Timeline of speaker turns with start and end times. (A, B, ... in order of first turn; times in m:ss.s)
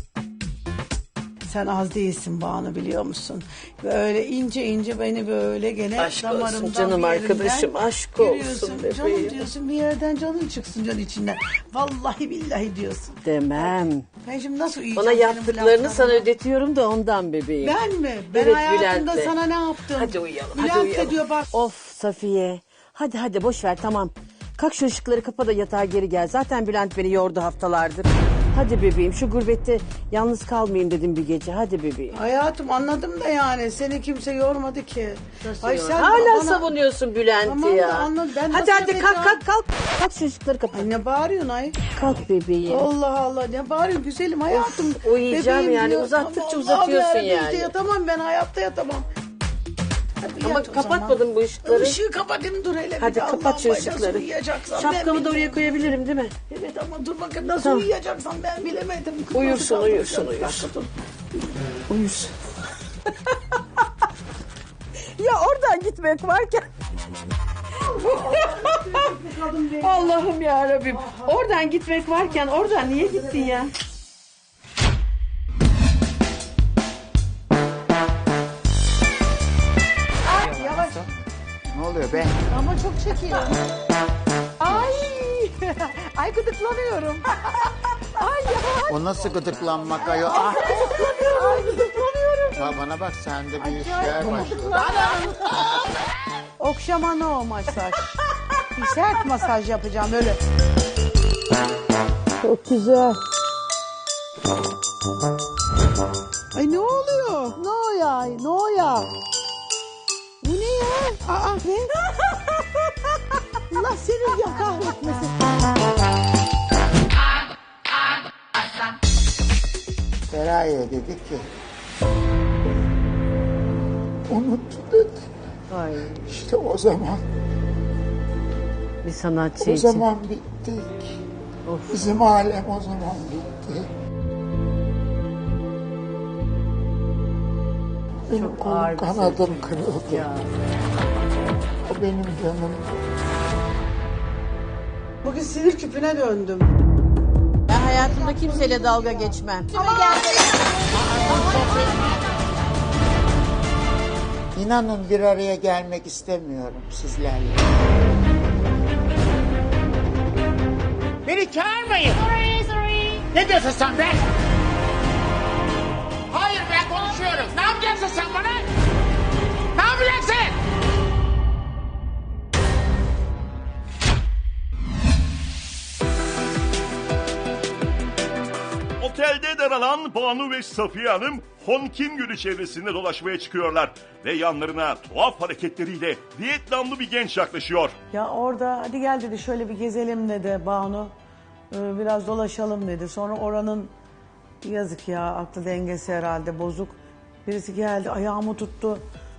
0:01.4-0:16.3 A
0:06.0-0:09.5 B
0:13.2-0:14.1 B
0:14.9-0:17.8 B
0:17.6-0:21.5 A
0:18.3-0:19.4 B
0:19.9-0:32.2 B
0:32.1-0:36.7 A
0:35.4-0:40.9 B
0:37.4-0:39.4 A
0:40.7-0:41.8 A
0:42.0-0:42.9 B
0:42.7-0:49.1 A
0:44.5-0:47.7 B
0:50.2-0:55.7 A
0:50.4-0:52.0 B
0:53.0-0:56.4 B
0:56.5-1:00.9 A
0:57.6-0:57.9 B
0:59.3-1:00.7 B
1:01.9-1:02.3 B
1:05.2-1:06.7 B
1:07.8-1:09.2 B
1:08.1-1:10.2 A
1:09.8-1:13.7 B
1:10.9-1:11.3 A
1:20.2-1:21.1 A
1:21.7-1:22.4 C
1:22.5-1:23.6 A
1:24.6-1:29.3 A
1:24.7-1:25.0 B
1:28.9-1:31.3 C
1:30.0-1:32.7 A
1:30.4-1:31.1 B
1:32.5-1:34.9 C
1:33.6-1:35.7 A
1:36.6-1:38.2 A
1:38.7-1:40.4 A
1:42.4-1:43.2 A
1:46.5-1:49.1 A
1:50.4-1:52.0 A
1:53.7-1:55.3 A
2:00.3-2:01.5 C
2:04.3-2:05.3 C
2:05.7-2:06.3 B
2:06.3-2:07.2 C
2:09.0-2:10.1 B
2:09.6-2:11.2 C
2:11.6-2:12.1 B
2:11.9-2:13.9 C
2:18.3-2:20.3 C
2:18.3-2:20.5 B
2:21.9-2:23.0 C
2:25.2-2:26.7 A
2:27.7-2:30.5 B
2:27.8-2:30.6 A
2:30.9-2:32.1 C
2:31.5-2:31.8 A
2:34.6-2:37.6 C
2:41.2-2:44.3 C
2:46.3-2:48.7 C
2:49.8-2:50.6 C
2:59.0-3:07.9 D
3:08.1-3:11.1 A
3:11.7-3:13.9 A
3:14.6-3:19.0 A